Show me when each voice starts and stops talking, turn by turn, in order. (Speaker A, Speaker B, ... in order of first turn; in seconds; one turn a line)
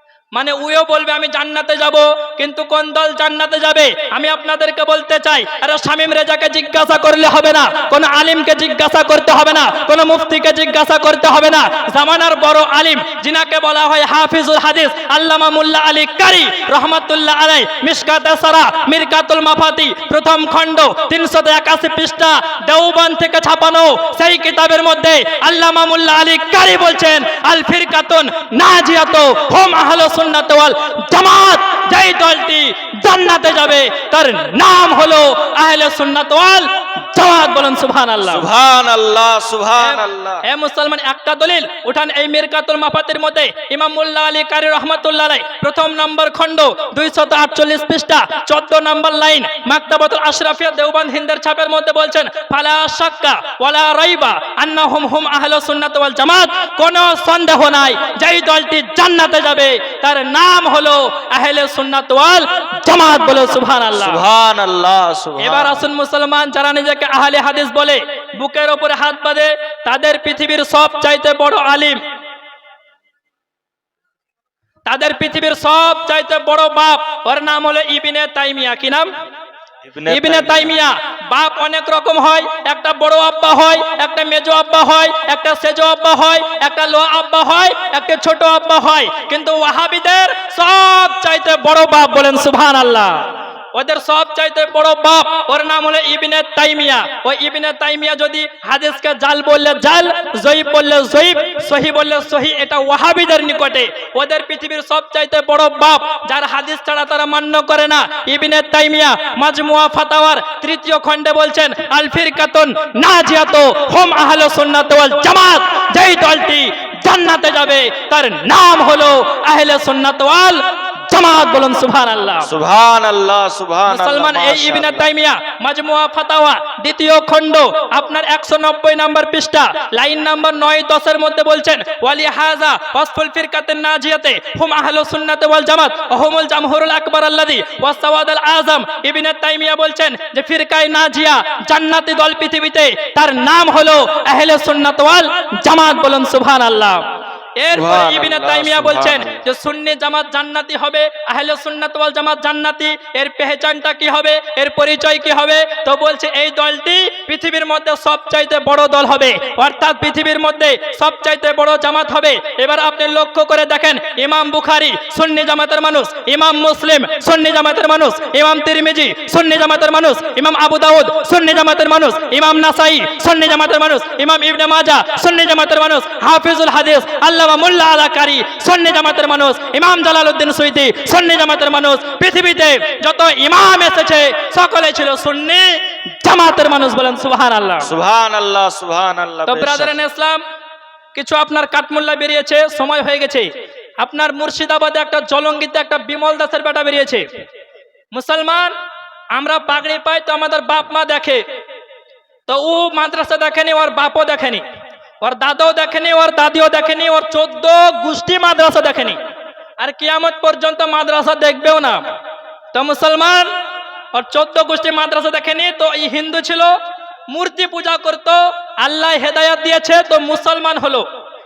Speaker A: 0.3-38.5
Speaker B: 38.2-40.4
Speaker A: 39.8-64.2
Speaker B: 63.9-65.8
Speaker A: 65.4-72.0
Speaker A: 74.8-79.1
Speaker B: 79.8-80.7
Speaker A: 80.1-122.5
Speaker B: 122.5-125.0
Speaker A: 123.9-147.0
Speaker A: 147.6-187.9
Speaker B: 147.7-149.4
Speaker B: 187.8-189.9
Speaker A: 189.5-190.4
Speaker A: 191.1-193.5
Speaker A: 194.0-197.2
Speaker A: 198.1-198.7
Speaker A: 199.3-201.4
Speaker A: 202.5-204.6
Speaker A: 205.2-209.2
Speaker A: 209.8-212.2
Speaker A: 212.7-213.5
Speaker A: 214.1-216.8
Speaker A: 217.3-221.1